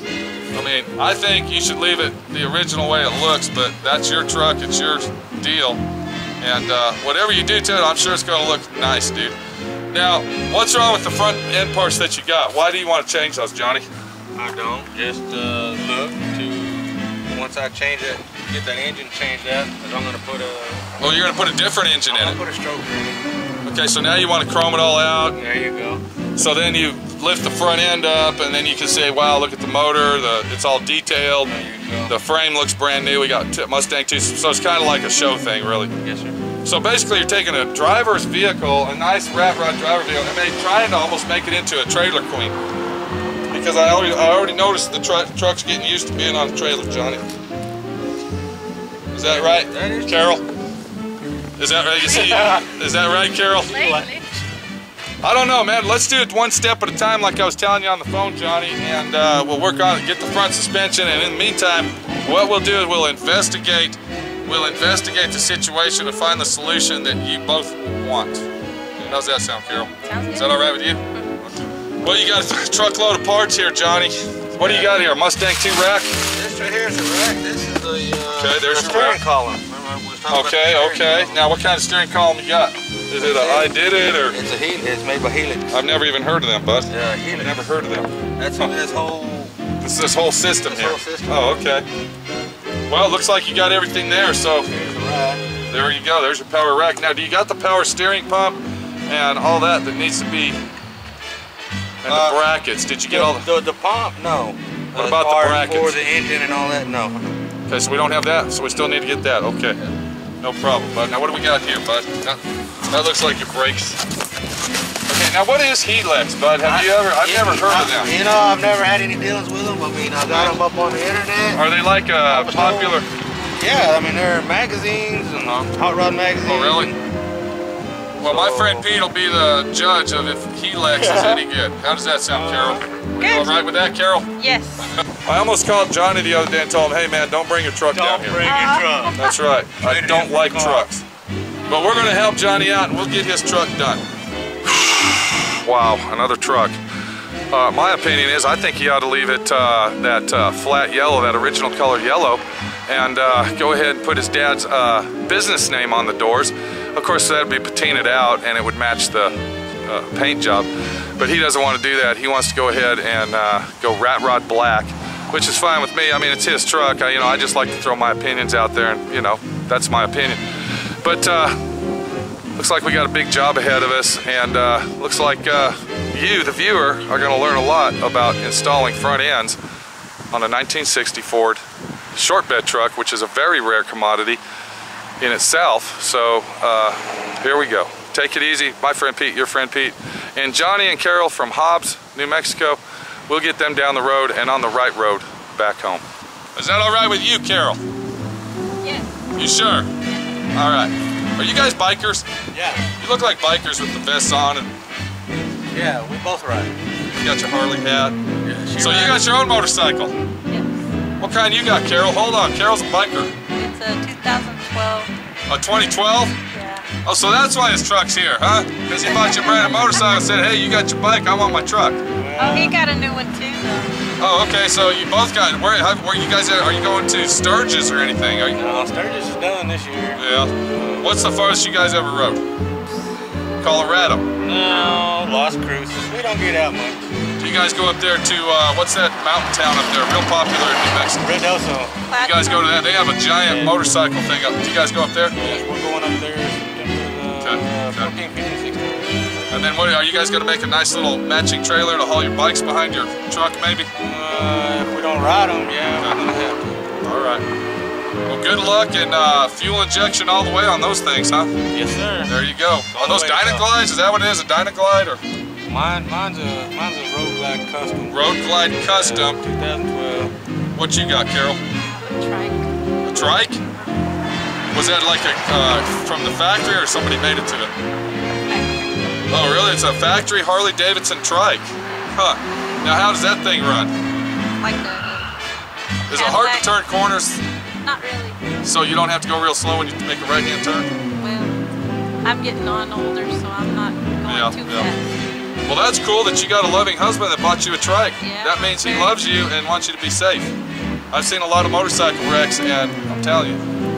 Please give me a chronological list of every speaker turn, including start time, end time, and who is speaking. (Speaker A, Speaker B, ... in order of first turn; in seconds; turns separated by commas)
Speaker A: 0.5-5.8, Speaker A: 6.4-9.4, Speaker A: 9.9-13.8, Speaker B: 14.3-20.9, Speaker A: 21.0-22.4, Speaker B: 22.1-23.2, Speaker A: 23.6-25.4, Speaker B: 25.3-26.0, Speaker A: 26.4-31.5, Speaker B: 31.4-32.1, Speaker A: 32.1-35.9, Speaker B: 36.0-36.4, Speaker A: 36.6-42.5, Speaker A: 43.5-47.2, Speaker A: 49.1-50.4, Speaker B: 49.2-50.3, Speaker A: 51.6-53.9, Speaker B: 52.2-52.7, Speaker C: 53.6-54.2, Speaker B: 53.7-54.2, Speaker A: 55.2-68.5, Speaker A: 69.0-71.0, Speaker C: 70.0-71.3, Speaker A: 72.0-76.2, Speaker B: 74.6-75.0, Speaker B: 76.3-81.4, Speaker A: 78.3-79.2, Speaker A: 80.3-84.4, Speaker B: 83.2-85.8, Speaker A: 85.7-88.7, Speaker B: 86.9-87.7, Speaker B: 88.3-89.5, Speaker A: 89.8-91.8, Speaker B: 90.6-91.6, Speaker A: 92.9-94.7, Speaker B: 94.6-95.4, Speaker A: 95.7-100.6, Speaker A: 102.0-103.5, Speaker B: 102.0-102.4, Speaker B: 103.1-107.3, Speaker A: 104.9-106.0, Speaker A: 107.7-109.8, Speaker A: 110.4-114.0, Speaker A: 115.1-118.1, Speaker B: 116.6-121.7, Speaker A: 121.5-123.1, Speaker B: 122.2-127.0, Speaker A: 126.4-126.9, Speaker B: 128.2-128.9, Speaker A: 128.2-134.3, Speaker B: 130.9-131.4, Speaker B: 132.3-132.9, Speaker C: 133.2-133.6, Speaker C: 134.4-134.9, Speaker A: 135.0-138.5, Speaker B: 137.9-139.2, Speaker C: 138.4-139.3, Speaker A: 139.1-141.0, Speaker B: 139.7-140.9, Speaker A: 141.7-144.0, Speaker A: 144.6-146.8, Speaker A: 147.5-170.4, Speaker A: 171.0-171.6, Speaker A: 172.5-179.6, Speaker A: 180.3-181.6, Speaker A: 182.1-184.4, Speaker A: 185.2-197.8, Speaker C: 198.8-199.2, Speaker A: 199.3-199.9, Speaker C: 200.0-200.4, Speaker A: 200.5-202.2, Speaker B: 202.5-202.9, Speaker C: 202.7-202.9, Speaker A: 202.9-204.7, Speaker B: 205.7-206.7, Speaker A: 207.1-208.2, Speaker B: 208.4-209.3, Speaker A: 208.8-210.2, Speaker C: 210.5-210.9, Speaker A: 211.2-213.3, Speaker C: 213.5-215.1, Speaker A: 215.5-216.3, Speaker C: 216.5-216.9, Speaker A: 217.0-222.0, Speaker C: 219.0-220.1, Speaker B: 222.2-222.8, Speaker C: 222.4-224.0, Speaker A: 224.2-228.7, Speaker B: 228.5-231.2, Speaker A: 230.2-232.4, Speaker A: 233.6-234.2, Speaker B: 234.4-237.1, Speaker C: 234.7-235.0, Speaker A: 237.4-241.3, Speaker B: 241.2-242.0, Speaker C: 242.1-242.8, Speaker A: 242.1-245.4, Speaker B: 243.4-243.8, Speaker B: 245.3-249.0, Speaker A: 247.4-248.1, Speaker A: 249.5-253.9, Speaker B: 254.0-256.8, Speaker A: 257.0-257.4, Speaker A: 258.3-261.5, Speaker B: 261.7-262.4, Speaker A: 262.2-265.2, Speaker B: 262.9-263.7, Speaker B: 265.7-270.3, Speaker A: 268.1-269.4, Speaker A: 270.7-271.6, Speaker C: 271.8-273.2, Speaker A: 273.0-273.6, Speaker A: 274.7-277.7, Speaker C: 278.4-278.9, Speaker A: 279.3-283.9, Speaker C: 284.6-285.3, Speaker A: 286.1-287.4, Speaker C: 286.1-286.8, Speaker C: 287.8-288.5, Speaker A: 288.6-290.9, Speaker C: 291.2-291.6, Speaker C: 292.2-295.2, Speaker A: 294.2-294.9, Speaker A: 295.6-300.5, Speaker C: 298.2-299.2, Speaker A: 301.1-303.6